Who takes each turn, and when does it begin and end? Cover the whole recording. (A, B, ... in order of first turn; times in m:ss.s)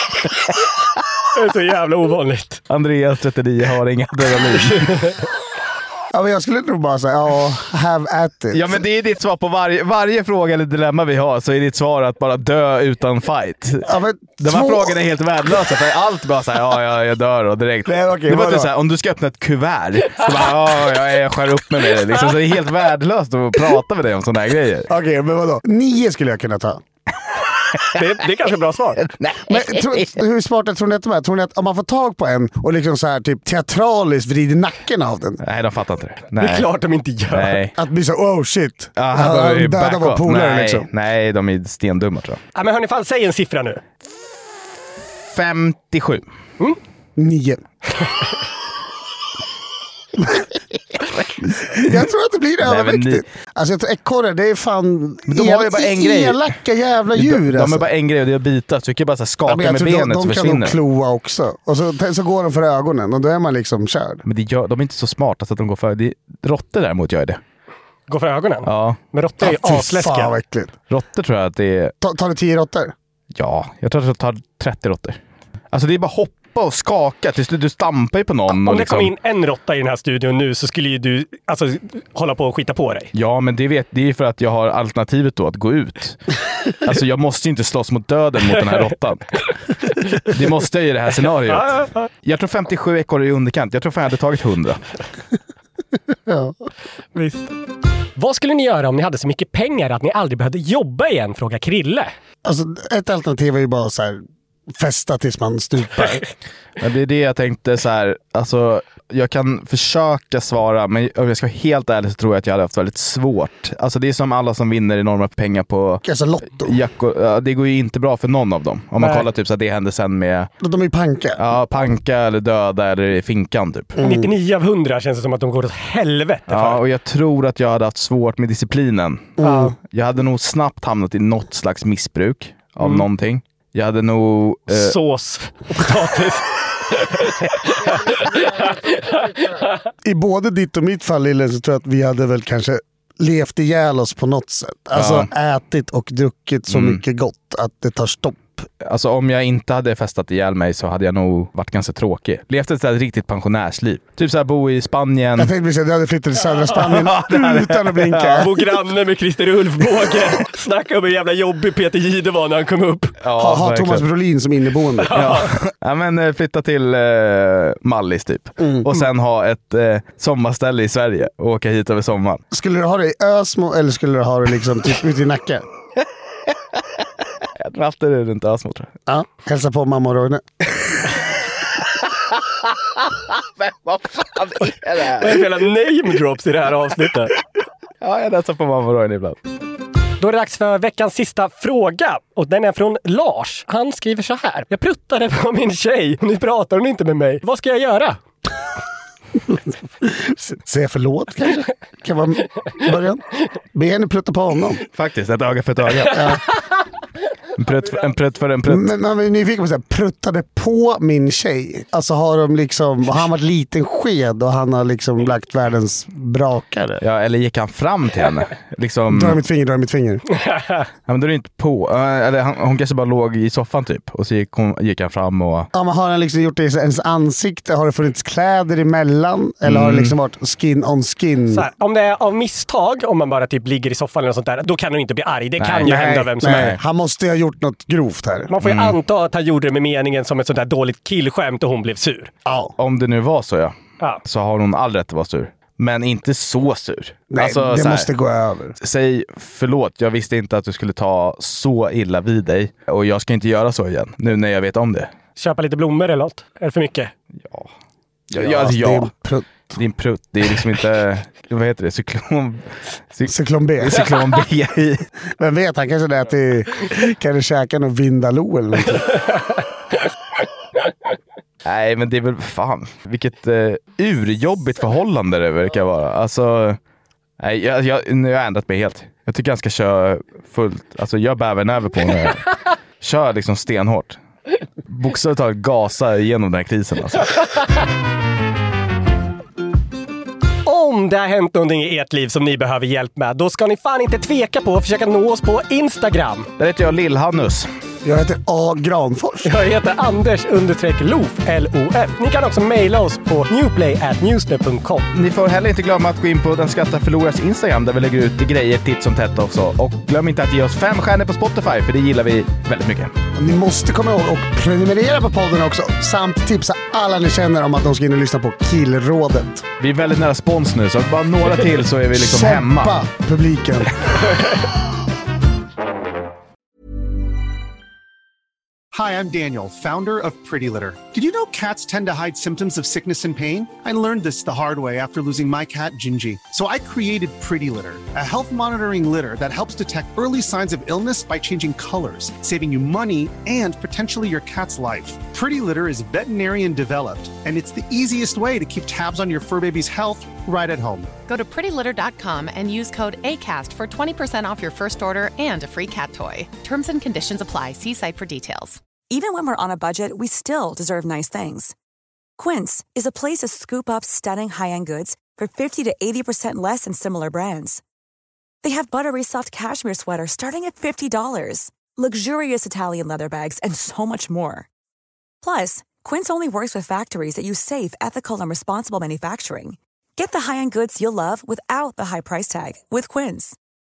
0:01.3-0:02.6 A
0:02.7-0:05.0 B
0:04.7-0:05.1 A
0:06.1-0:08.8 C
0:08.5-0:13.9 B
0:13.8-0:15.0 C
0:14.4-0:24.9 B
0:17.8-0:18.7 C
0:24.9-0:26.8 C
0:27.9-0:29.1 A
0:29.2-0:30.1 B
0:29.4-0:35.4 C
0:35.4-0:36.7 B
0:36.4-0:37.6 A
0:37.3-0:37.7 B
0:37.8-0:40.9 C
0:39.0-0:42.4 B
0:42.5-0:43.8 A
0:45.3-0:46.2 B
0:47.2-0:47.6 C
0:51.2-0:51.9 B
0:51.7-0:57.9 C
0:52.6-0:53.2 B
0:55.3-0:56.5 B
0:57.1-1:00.8 B
0:59.5-1:04.2 C
1:04.2-1:07.4 B
1:08.1-1:10.3 A
1:08.6-1:09.0 B
1:09.4-1:10.8 C
1:10.9-1:11.9 B
1:12.0-1:12.9 C
1:13.3-1:15.2 B
1:15.7-1:19.1 B
1:18.5-1:23.1 A
1:23.1-1:29.4 B
1:30.1-1:34.8 B
1:31.5-1:32.1 A
1:36.3-1:36.5 C
1:37.1-1:37.5 A
1:38.2-1:42.1 A
1:42.4-1:46.2 C
1:46.8-1:56.0 B
1:56.0-1:56.7 C
1:56.6-2:00.5 B
1:59.0-1:59.2 A
2:00.6-2:01.4 C
2:01.4-2:04.0 B
2:04.0-2:04.3 C
2:04.0-2:06.8 A
2:06.5-2:14.9 B
2:09.4-2:09.7 C
2:09.4-2:09.7 A
2:12.8-2:13.0 A
2:14.7-2:19.7 A
2:20.0-2:28.6 C
2:24.9-2:25.3 B
2:26.7-2:27.0 B
2:28.8-2:35.5 B
2:35.4-2:38.5 C
2:36.8-2:38.6 B
2:38.4-2:43.1 A
2:43.2-2:44.0 B
2:43.4-2:45.2 C
2:45.0-2:45.5 A
2:45.1-2:52.4 B
2:52.5-2:55.6 C
2:57.6-2:58.9 B
2:59.1-3:00.4 C
3:03.6-3:05.4 B
3:05.2-3:07.3 A
3:08.0-3:09.4 B
3:10.2-3:18.2 A
3:20.0-3:23.2 C
3:23.7-3:24.8 C
3:24.9-3:26.4 B
3:26.1-3:26.4 C
3:27.6-3:28.9 B
3:28.7-3:37.0 C
3:37.0-3:39.4 B
3:39.1-3:40.2 C
3:40.5-3:40.8 A
3:41.1-3:45.7 B
3:45.7-3:51.7 C
3:49.6-3:50.1 B
3:51.5-3:56.7 A
3:55.6-3:56.8 B
3:55.8-3:58.5 C
3:58.5-4:02.3 A
3:58.6-3:59.0 B
4:02.4-4:02.7 C
4:02.8-4:08.1 B
4:07.3-4:08.7 C
4:08.8-4:15.1 B
4:15.4-4:17.1 A
4:17.4-4:17.7 B
4:18.3-4:19.1 B
4:18.3-4:19.7 C
4:19.8-4:25.0 B
4:23.3-4:24.1 C
4:25.4-4:29.2 C
4:31.6-4:36.8 B
4:37.4-4:44.2 B
4:44.9-4:47.4 B
4:50.6-4:56.5 A
4:56.6-4:57.7 B
4:58.0-4:59.5 C
4:59.4-5:05.0 A
5:05.1-5:13.1 B
5:13.4-5:19.7 C
5:19.8-5:23.0 B
5:22.1-5:23.9 C
5:28.9-5:51.1 D
5:51.3-5:58.8 E
5:59.1-6:01.7 F
6:02.4-6:07.8 F
6:08.6-6:14.7 F
6:15.4-6:23.6 F